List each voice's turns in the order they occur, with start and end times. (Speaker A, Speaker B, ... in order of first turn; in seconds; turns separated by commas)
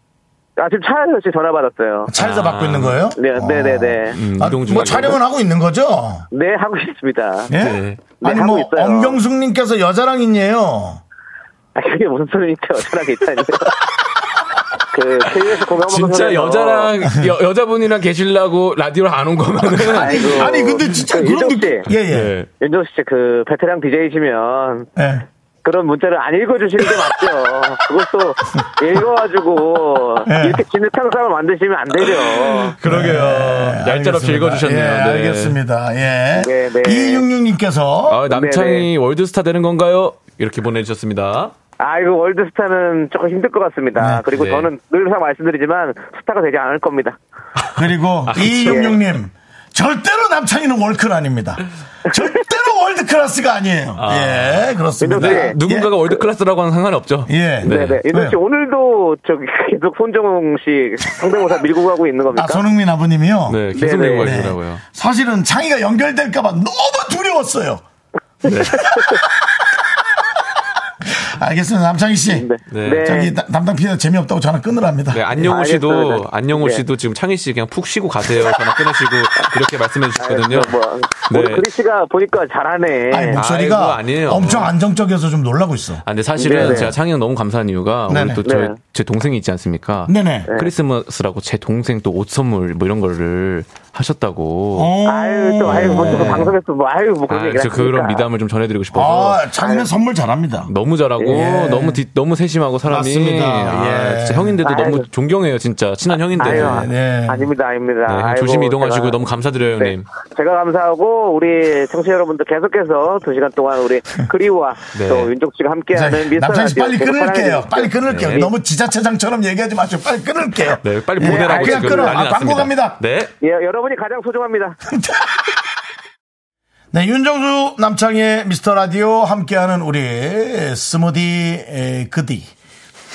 Speaker A: 0.6-2.1, Speaker B: 2.1-6.3, Speaker C: 2.2-3.1, Speaker A: 3.2-4.2, Speaker C: 4.1-5.2, Speaker A: 6.3-7.5, Speaker B: 7.5-11.0, Speaker C: 7.5-8.0, Speaker A: 8.2-9.2, Speaker A: 11.8-13.8, Speaker A: 14.9-16.9, Speaker C: 15.8-20.5, Speaker B: 19.7-22.3, Speaker A: 19.9-21.9, Speaker C: 22.1-22.5, Speaker A: 22.6-24.9, Speaker B: 25.0-25.2, Speaker A: 25.6-32.8, Speaker B: 30.2-30.6, Speaker B: 32.7-38.2, Speaker C: 32.8-35.6, Speaker A: 36.4-37.2, Speaker C: 38.1-41.5, Speaker A: 38.3-38.9, Speaker A: 41.8-47.2, Speaker B: 44.0-44.2, Speaker C: 44.3-44.7, Speaker C: 47.6-48.9, Speaker B: 47.8-55.9, Speaker A: 48.6-49.0, Speaker C: 54.0-58.0, Speaker A: 55.0-55.6, Speaker B: 57.3-58.4, Speaker A: 57.6-62.6, Speaker B: 62.3-63.6, Speaker C: 63.5-64.8, Speaker A: 63.8-64.3, Speaker B: 64.2-67.8, Speaker C: 68.5-68.9, Speaker A: 68.5-69.2, Speaker B: 68.6-69.5, Speaker B: 71.0-72.5, Speaker A: 72.3-73.3, Speaker C: 72.7-73.2, Speaker B: 73.0-75.5, Speaker C: 75.1-80.7, Speaker A: 75.4-76.8, Speaker A: 80.2-83.4, Speaker C: 81.3-81.6, Speaker B: 83.1-86.9, Speaker C: 83.3-84.7, Speaker C: 86.0-94.9, Speaker A: 86.4-87.0, Speaker B: 88.1-88.4, Speaker A: 88.4-88.8, Speaker B: 90.1-90.5, Speaker B: 94.8-96.5, Speaker A: 95.1-98.3, Speaker C: 95.6-96.5, Speaker C: 97.3-99.5, Speaker B: 98.9-100.7, Speaker A: 99.6-99.9, Speaker C: 100.7-106.9, Speaker B: 101.3-102.0, Speaker B: 102.9-104.6, Speaker A: 104.6-105.1, Speaker A: 106.3-109.2, Speaker B: 106.4-107.5, Speaker C: 108.1-110.1, Speaker A: 109.8-118.5, Speaker C: 114.9-115.3, Speaker B: 115.9-123.0, Speaker C: 118.1-118.4, Speaker C: 120.8-123.3, Speaker A: 121.2-122.2, Speaker A: 123.4-124.8, Speaker B: 124.9-125.6, Speaker B: 126.9-132.5